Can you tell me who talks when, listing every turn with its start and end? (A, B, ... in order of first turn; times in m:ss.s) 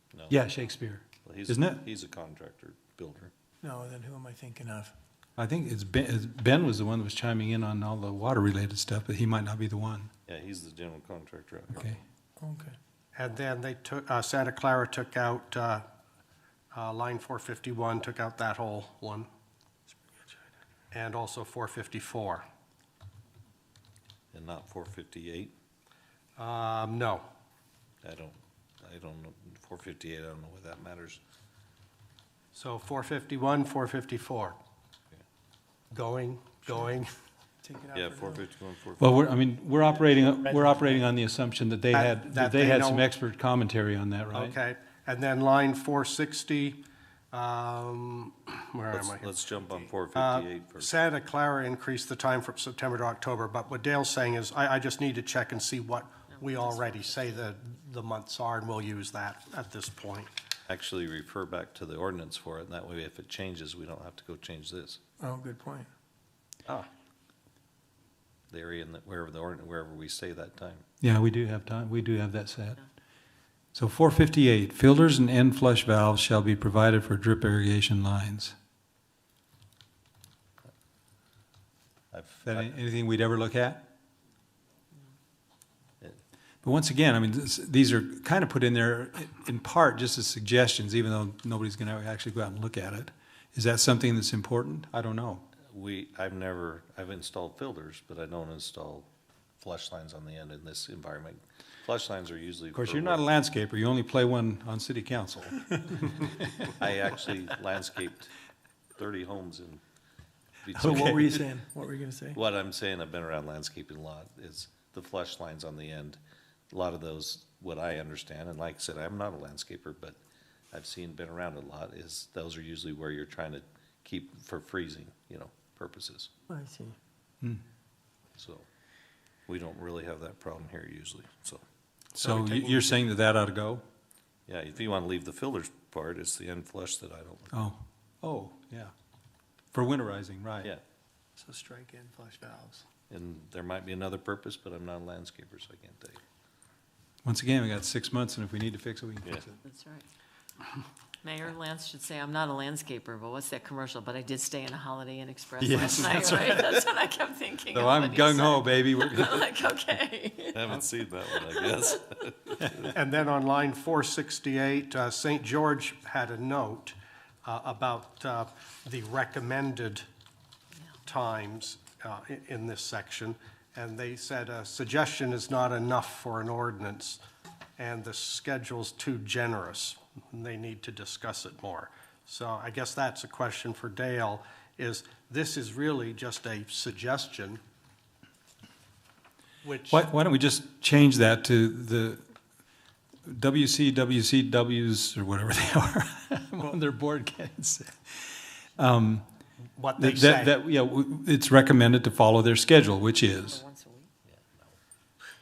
0:00.1-0:00.4 A
0:00.3-0:01.8 B
0:01.2-0:03.3 A
0:03.6-0:04.9 C
0:05.4-0:10.1 B
0:10.3-0:11.9 A
0:12.4-0:12.8 C
0:13.2-0:15.8 D
0:16.7-0:19.3 D
0:20.9-0:22.4 D
0:24.3-0:25.5 A
0:26.4-0:27.2 D
0:28.0-0:31.2 A
0:32.5-0:34.6 D
0:35.9-0:37.1 D
0:36.7-0:37.0 C
0:37.6-0:38.5 C
0:37.9-0:39.0 A
0:39.0-0:44.6 B
0:40.4-0:41.0 C
0:41.9-0:43.0 D
0:44.3-0:49.3 D
0:48.9-0:50.9 A
0:50.2-1:00.3 D
0:56.3-0:57.5 E
1:00.7-1:05.0 A
1:05.2-1:05.9 C
1:08.5-1:10.8 A
1:11.0-1:12.8 B
1:13.8-1:18.5 B
1:22.1-1:22.8 A
1:22.4-1:23.9 B
1:26.6-1:35.4 B
1:35.7-1:43.3 A
1:42.8-1:46.3 B
1:46.8-1:48.3 A
1:49.0-1:49.8 A
1:50.6-1:51.4 A
1:50.7-1:52.4 C
1:50.8-1:51.2 B
1:52.3-1:56.2 A
1:56.7-2:00.2 A
2:00.7-2:06.3 A
2:06.5-2:07.0 C
2:08.4-2:08.7 A
2:09.5-2:11.6 A
2:12.2-2:13.8 B
2:14.5-2:17.6 A
2:17.5-2:18.9 B
2:19.7-2:20.7 B
2:21.4-2:22.8 C
2:23.1-2:26.2 A
2:27.2-2:29.6 B
2:29.6-2:30.1 E
2:31.2-2:41.9 E
2:35.6-2:36.6 B
2:37.7-2:39.5 B
2:40.5-2:43.0 A
2:42.9-2:50.0 D
2:51.0-2:57.2 D
2:57.8-3:07.6 D
3:09.6-3:10.0 D
3:09.9-3:12.2 B
3:13.3-3:19.2 B
3:19.8-3:20.5 D
3:20.0-3:23.6 B
3:23.2-3:24.1 E
3:24.2-3:24.8 A